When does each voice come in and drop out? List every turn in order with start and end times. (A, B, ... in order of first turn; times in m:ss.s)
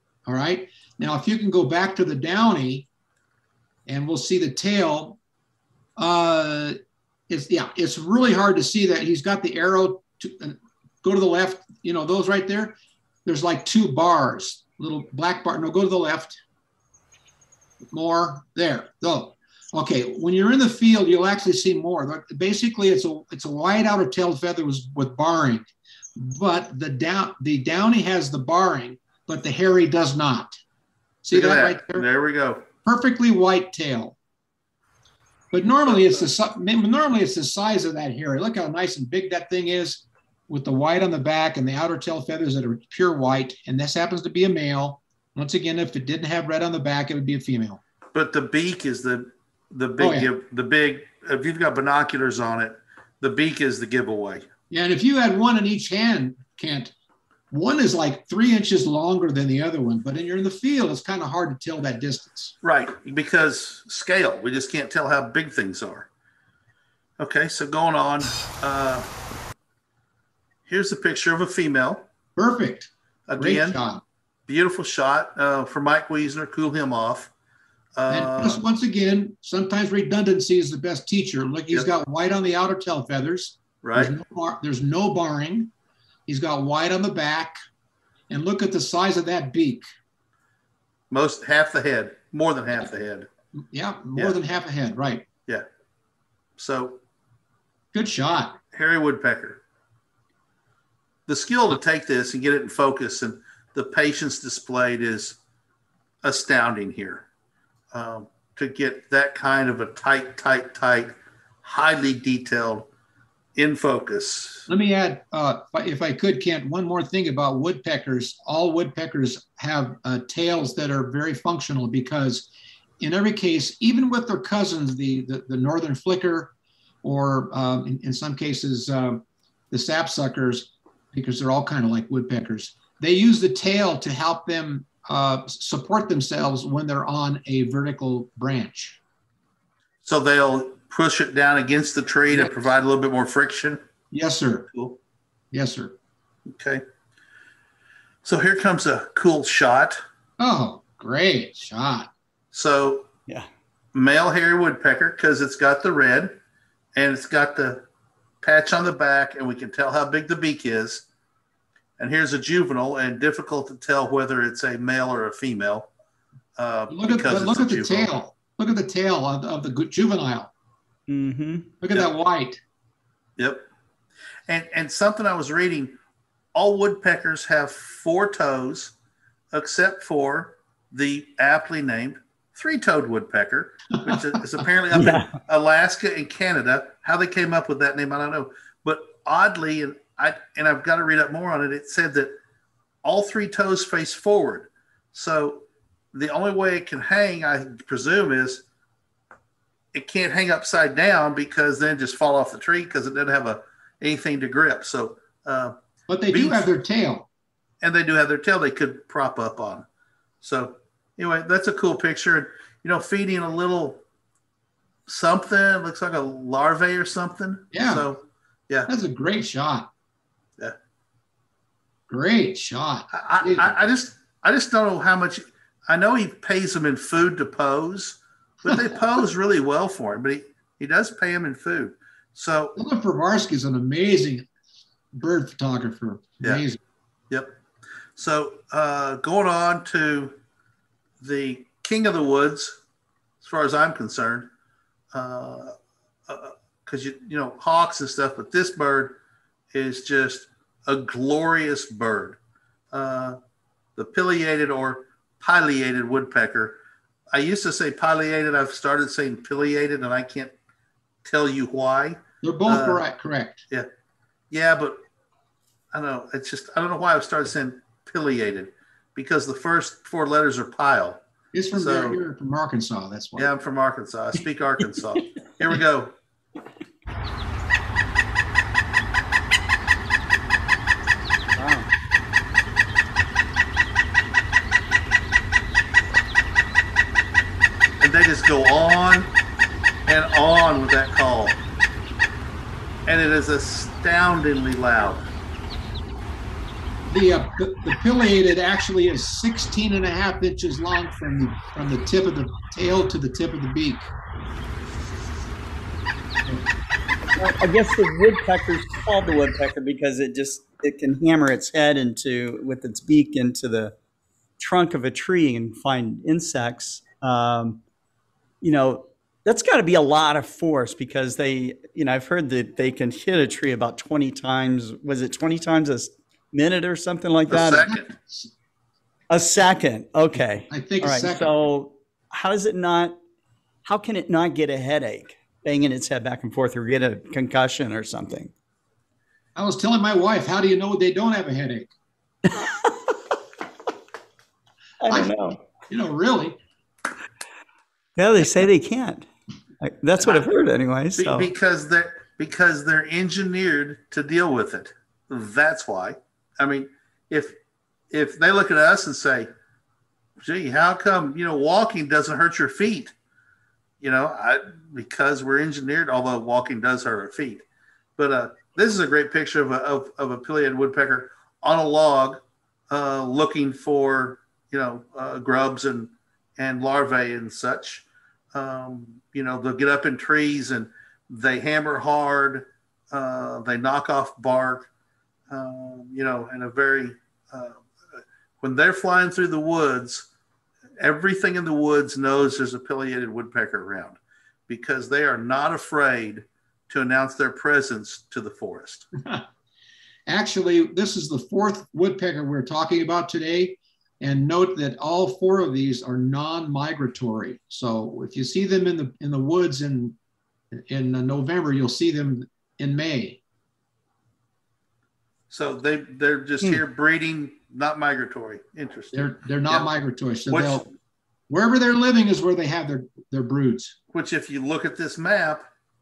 0:00.2-0:02.9 A
0:03.8-0:05.2 A
0:06.0-0:06.8 A
0:07.3-0:16.4 A
0:17.9-0:30.6 A
0:31.2-0:32.0 A
0:31.3-0:32.6 B
0:32.8-0:34.2 A
0:35.5-0:47.8 A
0:35.8-0:36.2 B
0:48.1-0:54.4 B
0:50.0-0:50.3 A
0:54.7-0:56.9 A
0:57.5-1:02.5 A
1:02.6-1:06.1 B
1:07.2-1:09.0 B
1:10.6-1:12.0 B
1:12.4-1:14.0 A
1:13.3-1:13.8 B
1:14.5-1:17.3 B
1:18.0-1:18.6 B
1:18.1-1:25.7 A
1:23.8-1:24.1 B
1:26.3-1:27.6 A
1:28.3-1:29.8 A
1:31.1-1:33.3 B
1:33.6-1:35.2 A
1:36.6-1:37.0 B
1:37.9-1:38.6 A
1:38.7-1:39.6 B
1:41.3-1:45.4 B
1:46.2-1:47.2 B
1:47.9-1:52.9 B
1:53.6-1:54.7 B
1:54.7-2:02.5 A
2:03.0-2:06.5 A
2:07.0-2:19.0 A
2:20.0-2:23.8 B
2:24.1-2:24.7 A
2:24.7-2:25.0 B
2:25.5-2:25.9 A
2:26.5-2:26.8 B
2:28.2-2:30.0 B
2:30.4-2:32.1 A
2:32.5-2:33.1 B
2:33.9-2:36.3 B
2:36.9-2:37.8 B
2:38.4-2:41.1 B
2:42.0-2:45.9 B
2:46.6-2:48.1 B
2:46.9-2:50.5 A
2:51.1-2:51.7 C
2:51.8-2:52.6 A
2:53.4-2:53.7 B
2:54.5-2:56.0 B
2:56.5-2:58.9 B
2:59.5-3:12.3 B
3:04.9-3:05.3 C
3:13.0-3:18.6 B
3:19.9-3:25.7 B
3:26.1-3:27.3 A
3:26.3-3:26.7 B
3:27.8-3:29.9 B
3:30.4-3:34.0 B
3:35.1-3:38.9 B
3:37.7-3:38.1 A
3:38.9-3:39.9 A
3:42.1-3:43.7 A
3:43.1-3:52.8 B
3:52.8-3:54.5 A
3:55.1-3:56.8 A
3:57.3-3:57.6 B
3:58.2-4:00.3 B
4:01.2-4:02.8 B
4:03.4-4:04.5 B
4:05.1-4:05.7 B
4:06.3-4:09.2 B
4:09.7-4:12.4 B
4:12.9-4:13.4 B
4:14.0-4:16.8 B
4:17.3-4:20.5 B
4:21.2-4:23.0 B
4:22.4-4:23.6 A
4:24.5-4:25.0 B
4:25.9-4:31.2 B
4:31.5-4:33.5 A
4:31.7-4:32.2 B
4:33.4-4:36.1 B
4:41.6-4:41.9 C
4:48.0-4:49.3 B
4:50.1-4:51.6 B
4:53.0-4:55.2 B
4:57.1-5:04.1 A
5:07.4-5:13.9 C
5:14.6-5:17.8 C
5:18.6-5:27.8 C
5:27.5-5:28.1 B
5:27.8-5:28.5 A
5:29.3-5:33.2 C
5:30.7-5:31.5 A
5:33.8-5:38.5 C
5:39.6-5:41.9 A
5:42.5-5:43.0 C
5:45.0-5:45.6 C
5:45.9-5:46.6 A
5:48.2-5:49.3 C
5:49.8-5:51.5 C
5:50.2-5:50.5 B
5:51.2-5:57.6 B
5:58.1-5:59.5 B
6:00.4-6:03.1 B
6:04.0-6:07.6 B
6:08.2-6:24.9 B
6:25.5-6:27.8 B
6:28.6-6:30.3 B
6:31.0-6:39.1 B
6:40.3-6:50.2 A
6:50.7-6:53.4 A
6:55.5-6:59.9 B
6:59.1-7:00.8 A
7:00.5-7:00.8 B
7:01.5-7:04.0 A
7:04.1-7:05.6 B